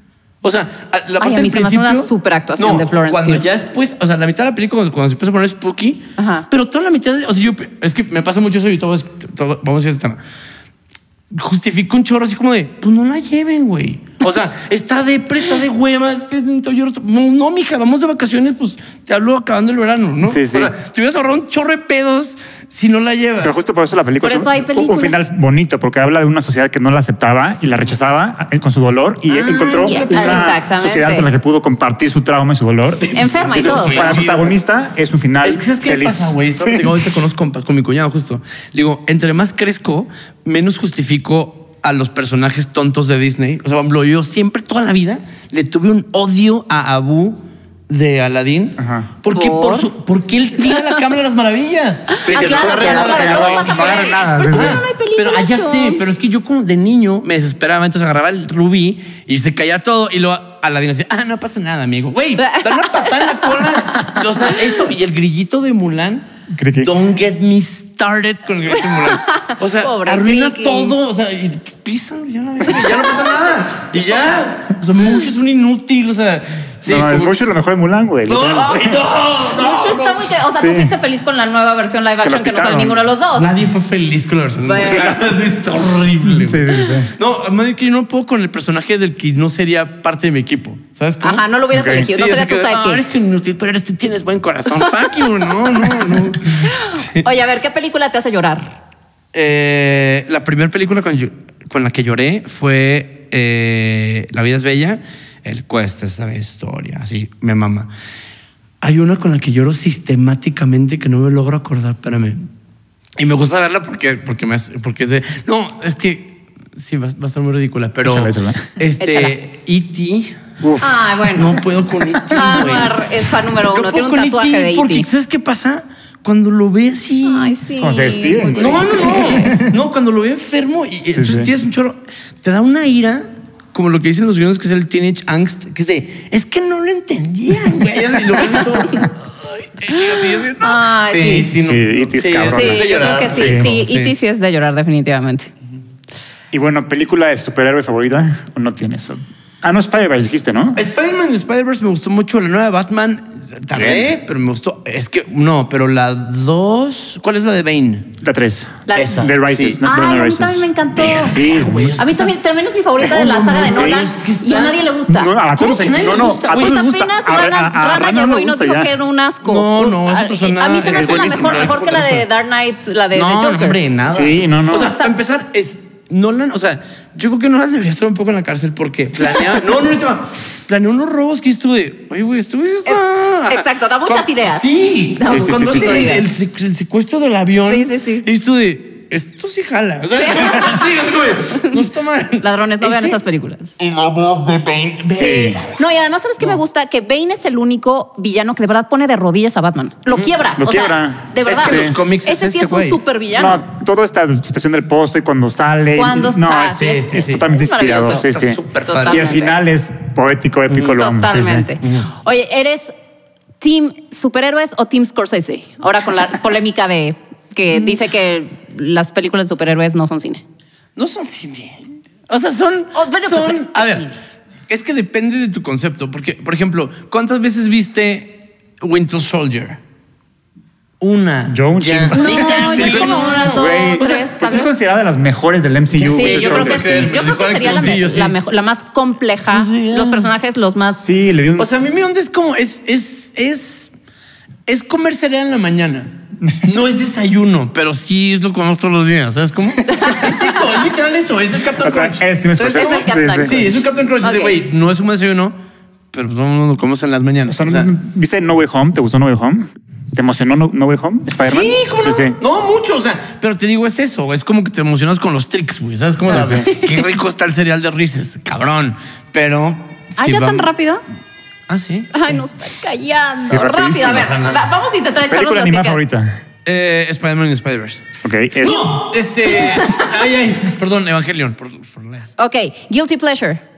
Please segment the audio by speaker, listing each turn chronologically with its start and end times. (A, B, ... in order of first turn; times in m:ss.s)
0:00.4-0:10.2 A
0:01.2-0:03.4 B
0:06.2-0:06.5 B
0:11.3-0:23.6 A
0:20.2-0:20.7 C
0:23.4-0:37.2 C
0:24.2-0:25.2 B
0:29.3-0:30.5 A
0:29.6-0:31.3 B
0:33.0-0:34.6 A
0:33.1-0:34.2 B
0:35.4-1:06.3 A
0:48.8-0:49.1 C
0:49.3-0:49.9 B
0:52.2-0:54.8 C
0:52.2-0:56.0 B
1:02.4-1:03.5 B
1:06.5-1:06.9 C
1:06.8-1:17.4 A
1:08.9-1:11.0 B
1:12.7-1:13.3 B
1:16.8-1:19.0 C
1:18.3-1:20.4 A
1:19.5-1:23.5 B
1:20.5-1:20.9 C
1:22.2-1:23.1 C
1:23.3-1:37.2 A
1:24.6-1:25.1 B
1:24.9-1:25.3 C
1:26.2-1:27.1 C
1:31.2-1:33.0 B
1:31.7-1:32.1 C
1:34.8-1:36.0 B
1:36.7-1:38.7 B
1:39.3-1:47.9 A
1:48.8-1:52.4 A
1:53.2-2:00.4 A
1:58.0-1:58.7 C
1:59.0-1:59.4 B
2:00.6-2:00.9 C
2:00.8-2:01.6 B
2:01.3-2:03.0 A
2:02.3-2:05.1 B
2:03.6-2:07.6 A
2:07.2-2:09.6 B
2:07.8-2:09.7 C
2:08.5-2:24.2 A
2:11.1-2:11.5 C
2:19.9-2:21.5 B
2:21.6-2:23.7 C
2:22.5-2:25.5 B
2:26.5-2:30.8 C
2:30.8-2:38.1 A
2:33.7-2:34.1 C
2:38.2-2:40.7 C
2:38.9-2:53.8 B
2:38.9-2:39.8 A
2:40.9-2:42.3 A
2:41.2-2:42.0 C
2:43.0-2:44.8 A
2:43.2-2:44.0 C
2:45.1-2:48.9 C
2:45.6-2:46.8 A
2:49.4-2:52.3 A
2:50.9-2:51.8 C
2:53.1-3:13.2 A
2:54.0-2:55.0 C
2:54.9-2:55.1 B
3:02.8-3:06.2 B
3:05.2-3:06.2 C
3:07.7-3:08.2 B
3:10.2-3:11.7 B
3:12.4-3:13.8 B
3:13.8-3:15.8 A
3:15.1-3:15.6 C
3:15.2-3:23.6 B
3:20.1-3:20.4 A
3:20.6-3:22.0 C
3:21.4-3:23.0 A
3:23.3-3:31.7 C
3:26.0-3:28.3 B
3:26.7-3:29.3 A
3:28.8-3:29.6 B
3:30.7-3:31.0 A
3:30.8-3:32.9 B
3:31.8-3:32.1 A
3:33.6-3:40.4 B
3:41.0-3:44.1 A
3:43.0-3:44.1 B
3:44.7-3:49.8 A
3:51.0-3:54.7 A
3:51.5-3:57.1 C
3:52.1-3:54.7 B
3:55.9-3:58.4 A
3:56.2-4:01.0 B
3:59.5-4:00.3 A
4:01.0-4:01.7 C
4:01.6-4:03.9 A
4:04.7-4:15.6 A
4:09.8-4:10.5 B
4:11.8-4:13.7 C
4:12.7-4:14.6 B
4:16.1-4:17.9 A
4:17.5-4:22.4 C
4:21.4-4:30.7 A
4:26.3-4:26.7 C
4:26.3-4:27.0 B
4:30.2-4:31.0 B
4:31.7-4:32.4 A
4:32.1-4:36.0 B
4:33.4-4:34.2 C
4:33.7-4:34.7 A
4:35.3-4:36.4 C
4:36.6-4:38.0 A
4:38.2-4:38.9 C
4:38.6-4:42.3 A
4:39.6-4:40.1 B
4:42.4-4:43.6 B